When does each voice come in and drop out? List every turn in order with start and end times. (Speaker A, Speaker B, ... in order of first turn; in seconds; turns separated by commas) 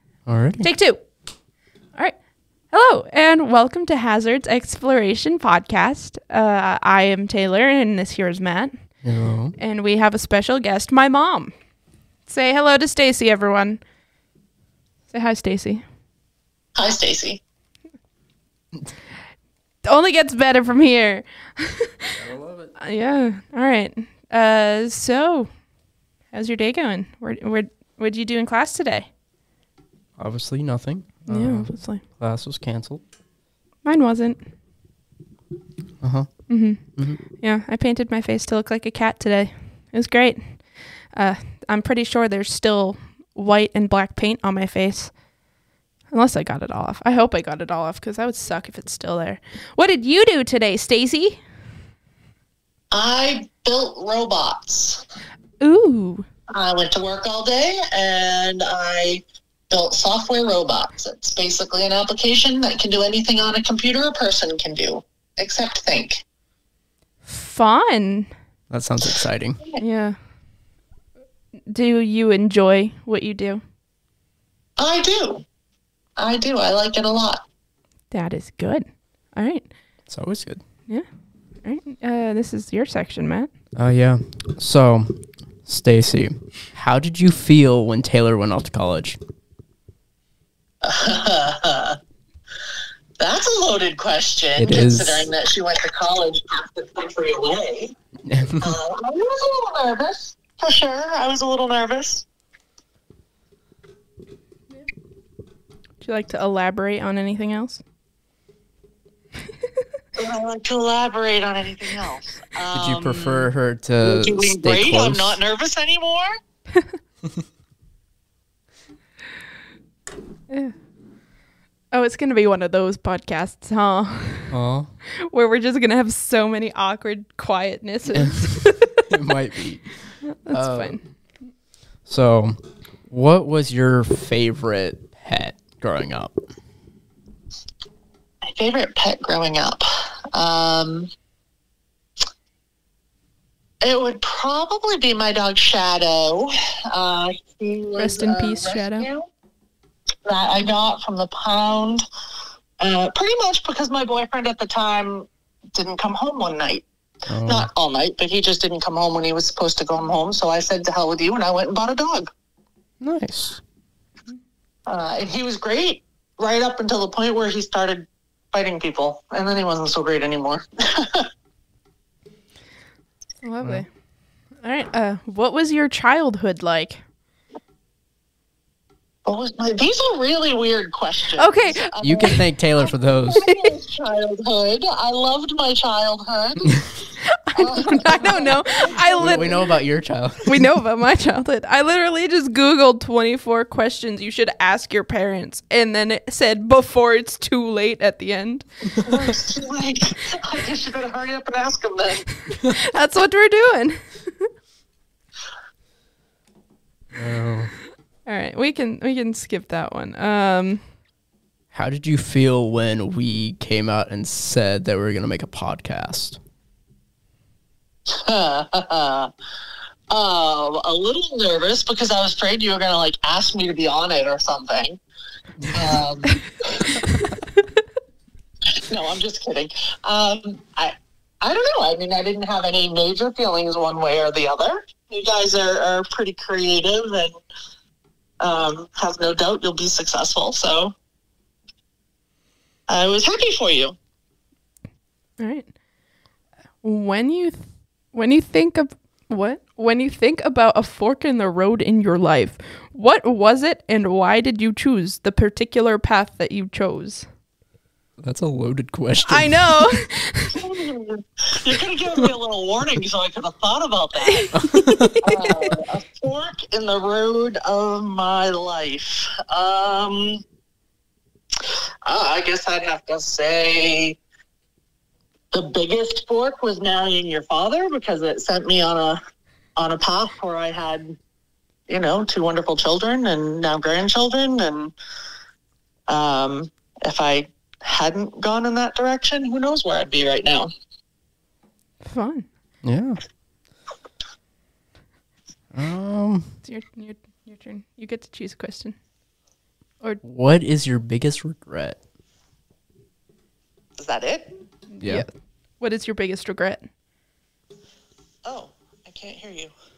Speaker A: 0.3-0.7, Speaker B: 0.6-1.0, Speaker B: 2.7-8.8, Speaker A: 9.0-9.5, Speaker B: 9.6-11.5, Speaker B: 12.3-13.8, Speaker B: 15.1-15.8, Speaker C: 16.8-17.4, Speaker B: 19.8-22.1, Speaker A: 22.2-22.7, Speaker B: 22.8-25.5, Speaker B: 26.3-29.1, Speaker A: 30.2-33.0, Speaker B: 31.3-32.0, Speaker B: 33.8-34.4, Speaker A: 36.0-36.3, Speaker B: 36.5-36.8, Speaker B: 37.4-40.6, Speaker B: 41.1-45.1, Speaker B: 46.1-51.4, Speaker C: 52.9-55.0, Speaker B: 55.6-56.3, Speaker C: 56.5-66.2, Speaker B: 67.2-68.3, Speaker A: 68.7-69.6, Speaker B: 69.8-70.2, Speaker B: 71.7-73.6, Speaker C: 74.8-75.4, Speaker C: 76.2-77.4, Speaker B: 78.1-79.7, Speaker A: 80.1-80.6, Speaker B: 81.6-83.5, Speaker A: 83.8-89.2, Speaker C: 90.8-92.0, Speaker C: 93.2-97.9, Speaker A: 94.5-95.3, Speaker A: 98.2-98.7, Speaker C: 98.6-102.2, Speaker B: 106.0-107.8, Speaker C: 110.2-113.5, Speaker A: 112.7-115.4, Speaker C: 114.0-116.3, Speaker B: 121.9-124.5, Speaker A: 124.5-124.9, Speaker B: 125.2-129.1, Speaker A: 128.1-131.0, Speaker B: 130.5-131.0, Speaker A: 132.1-136.3, Speaker C: 138.4-141.1, Speaker C: 143.8-149.3, Speaker B: 148.0-149.1, Speaker C: 150.2-152.0, Speaker C: 152.8-156.8, Speaker A: 157.3-157.7, Speaker C: 157.4-162.3, Speaker A: 163.0-163.6, Speaker C: 164.9-171.3, Speaker B: 173.4-173.9, Speaker B: 174.6-177.0, Speaker C: 179.3-182.4, Speaker B: 181.4-182.4, Speaker A: 182.0-183.4, Speaker C: 183.3-186.8, Speaker B: 187.3-189.7, Speaker C: 187.6-189.4, Speaker A: 189.1-190.6, Speaker B: 190.5-198.7, Speaker C: 199.0-202.3, Speaker B: 202.7-204.5, Speaker A: 207.2-207.7, Speaker B: 208.3-210.8, Speaker A: 211.7-216.4, Speaker C: 218.1-219.3, Speaker C: 220.1-225.0, Speaker A: 225.6-225.9, Speaker C: 225.7-226.9, Speaker C: 228.9-237.3, Speaker C: 238.4-240.9, Speaker C: 242.9-244.0, Speaker B: 245.4-245.7, Speaker B: 246.8-257.2, Speaker A: 258.2-259.9, Speaker B: 259.2-260.6, Speaker C: 260.5-264.5, Speaker B: 264.2-265.8, Speaker A: 264.5-265.1, Speaker C: 265.2-270.4, Speaker C: 272.1-274.2, Speaker C: 275.5-279.2, Speaker C: 279.8-281.2, Speaker C: 281.9-284.9, Speaker C: 286.1-290.7, Speaker B: 292.0-292.5, Speaker A: 292.8-293.2, Speaker A: 295.7-296.6, Speaker B: 296.6-299.0, Speaker A: 300.2-302.0, Speaker C: 304.0-304.5, Speaker B: 304.9-306.9, Speaker C: 308.4-309.7